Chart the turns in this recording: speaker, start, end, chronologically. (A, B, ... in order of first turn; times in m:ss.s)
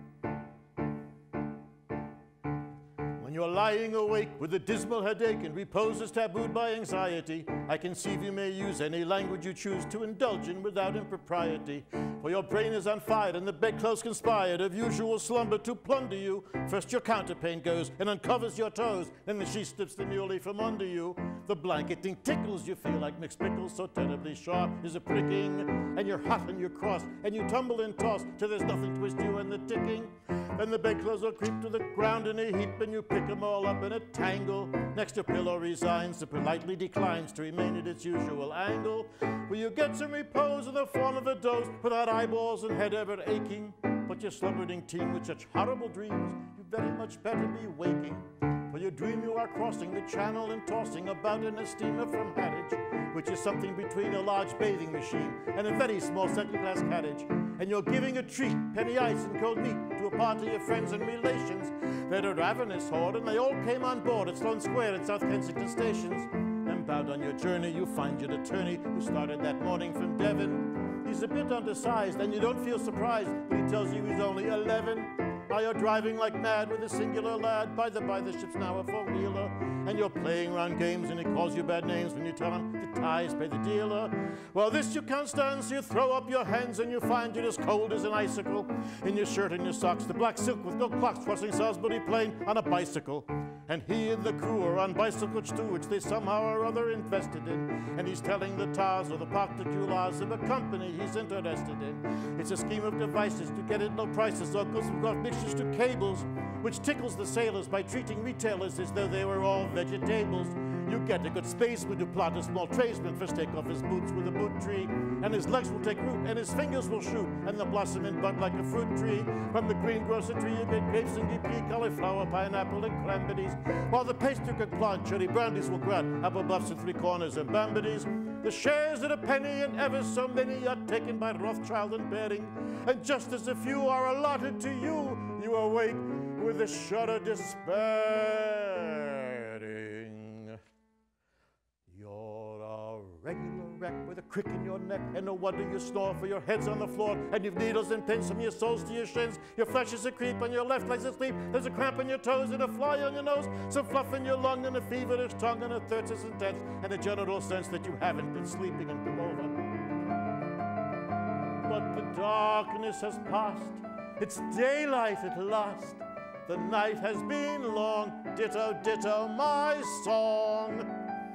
0:03.2-2:20.6 A
2:21.9-2:39.6 A
2:41.6-2:50.9 A